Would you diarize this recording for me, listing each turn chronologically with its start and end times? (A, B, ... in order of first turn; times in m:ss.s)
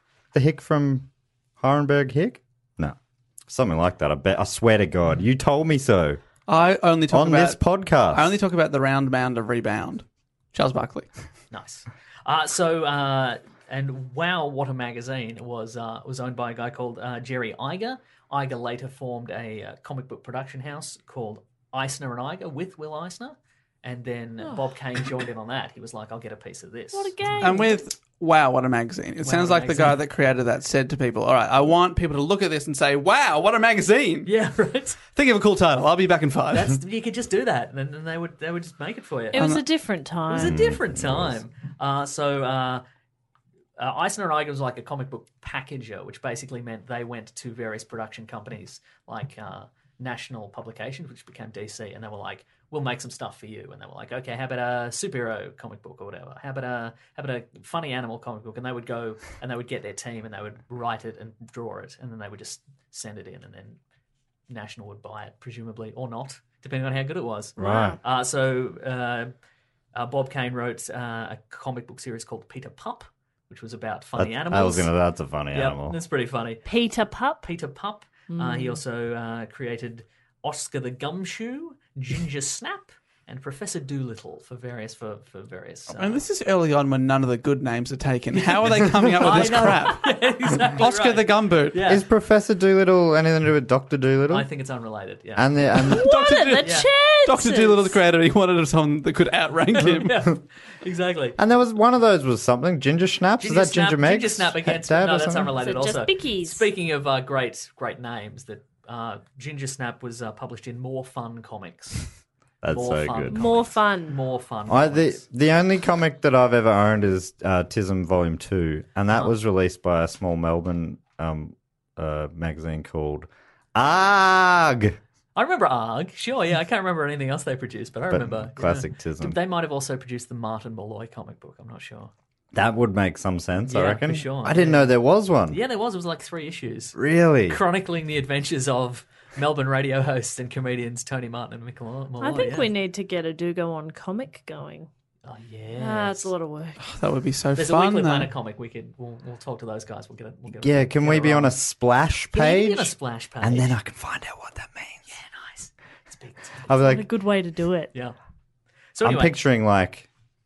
0:00.3-0:01.1 A
0:01.6-0:03.0 A
0:03.5-0:06.2 A
0:06.5-0:11.1 B
0:07.1-0:08.3 A
0:11.5-0:27.5 C
0:26.9-0:27.8 D
0:27.4-0:34.3 B
0:29.2-0:30.0 C
0:34.2-0:35.0 C
0:35.1-0:36.8 B
0:36.5-0:39.5 C
0:39.3-0:40.6 D
0:39.3-0:39.6 B
0:40.3-0:42.8 C
0:40.4-0:41.4 A
0:43.8-1:03.8 C
1:04.5-1:09.3 C
1:07.6-1:08.0 D
1:07.6-1:08.0 A
1:09.9-1:14.9 C
1:14.2-1:16.0 A
1:15.5-1:16.7 C
1:16.6-1:17.5 D
1:17.4-1:26.2 C
1:18.3-1:18.8 D
1:25.9-1:30.1 B
1:28.3-1:32.0 C
1:30.7-1:31.8 B
1:31.9-1:34.5 A
1:34.3-1:35.6 C
1:35.4-1:36.1 A
1:35.8-1:38.0 D
1:35.9-1:40.2 B
1:36.6-1:36.9 C
1:39.8-1:41.4 C
1:41.4-1:45.5 A
1:43.4-1:52.1 C
1:45.6-1:46.7 D
1:52.6-1:53.4 A
1:52.7-1:55.2 C
1:53.3-1:54.2 D
1:54.7-2:05.0 A
2:05.4-2:12.1 C
2:08.1-2:09.4 A
2:12.5-2:15.6 A
2:13.7-2:14.9 C
2:15.5-2:22.7 C
2:17.0-2:17.6 A
2:22.2-2:24.9 D
2:25.2-2:26.3 C
2:25.8-2:26.8 D
2:26.8-2:28.3 B
2:27.6-2:31.6 C
2:30.6-2:35.1 A
2:32.3-2:33.7 C
2:35.1-2:36.7 C
2:36.7-2:37.0 A
2:36.8-2:37.9 D
2:39.0-2:39.4 C
2:39.0-2:40.1 A